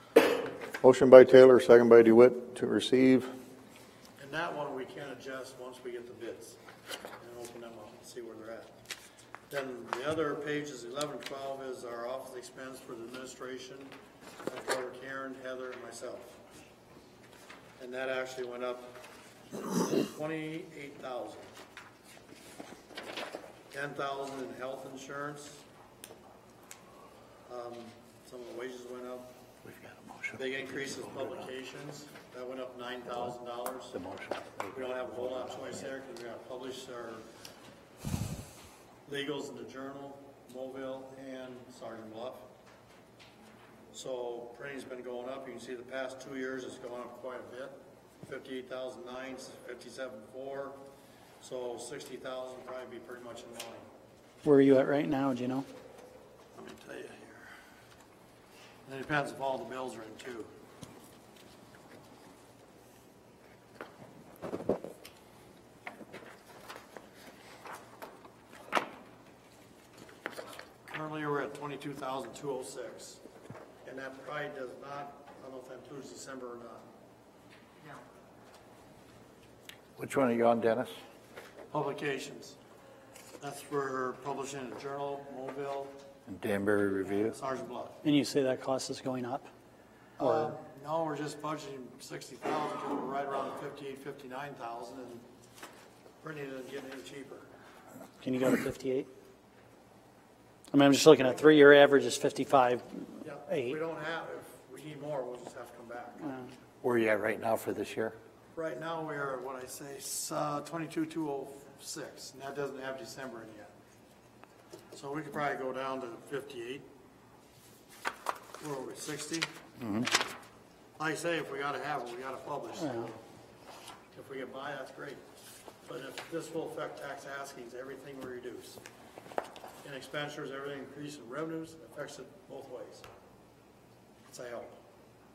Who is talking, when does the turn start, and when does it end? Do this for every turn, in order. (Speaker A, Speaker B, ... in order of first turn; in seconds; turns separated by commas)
Speaker A: 0.8-3.3, Speaker B: 4.2-6.6, Speaker B: 7.2-8.8, Speaker B: 9.5-13.9, Speaker B: 14.4-16.4, Speaker B: 17.8-19.0, Speaker B: 19.5-21.5, Speaker B: 23.7-25.6, Speaker B: 27.4-29.3, Speaker C: 29.6-31.5, Speaker B: 30.3-34.0, Speaker C: 33.9-35.9, Speaker B: 34.7-37.3, Speaker B: 39.0-42.5, Speaker B: 43.9-50.8, Speaker B: 51.4-53.9, Speaker D: 54.4-55.7, Speaker B: 56.5-57.5, Speaker B: 58.9-60.5, Speaker B: 70.8-73.2, Speaker B: 73.8-76.9, Speaker C: 80.0-80.9, Speaker B: 81.7-82.6, Speaker B: 83.4-86.0, Speaker C: 86.3-87.3, Speaker B: 87.2-88.0, Speaker D: 88.0-89.5, Speaker B: 90.2-95.2, Speaker D: 90.2-90.5, Speaker B: 96.2-97.5, Speaker D: 98.2-99.1, Speaker D: 100.7-103.8, Speaker B: 103.2-106.4, Speaker C: 106.8-108.2, Speaker B: 108.5-113.7, Speaker B: 114.9-116.9, Speaker B: 118.6-119.5, Speaker C: 119.8-120.1, Speaker B: 121.0-123.2, Speaker D: 122.8-123.1, Speaker B: 124.1-125.2, Speaker B: 125.9-128.8, Speaker B: 129.8-133.1, Speaker B: 134.3-134.8